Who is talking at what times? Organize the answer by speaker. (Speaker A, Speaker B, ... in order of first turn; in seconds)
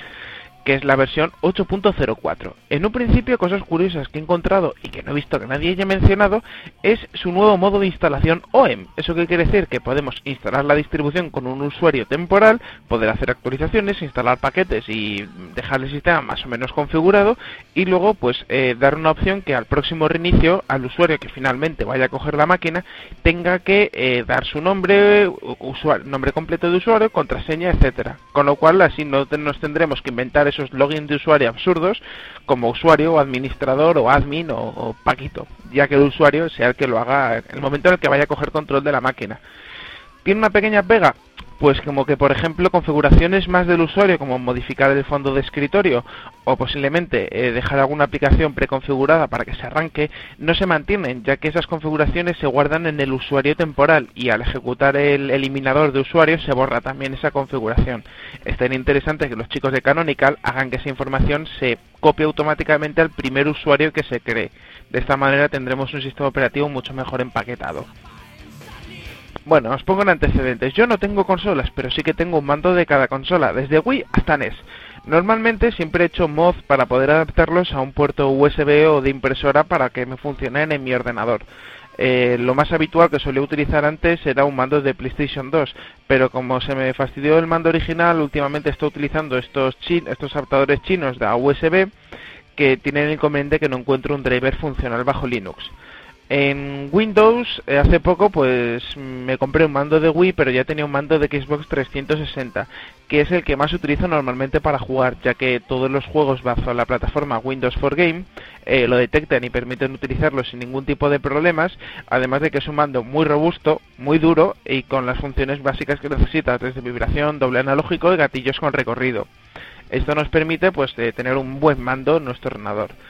Speaker A: 0.6-39.4, 40.2-67.9, 69.5-81.4, 82.0-91.9, 92.5-95.7, 96.3-119.3, 119.9-122.9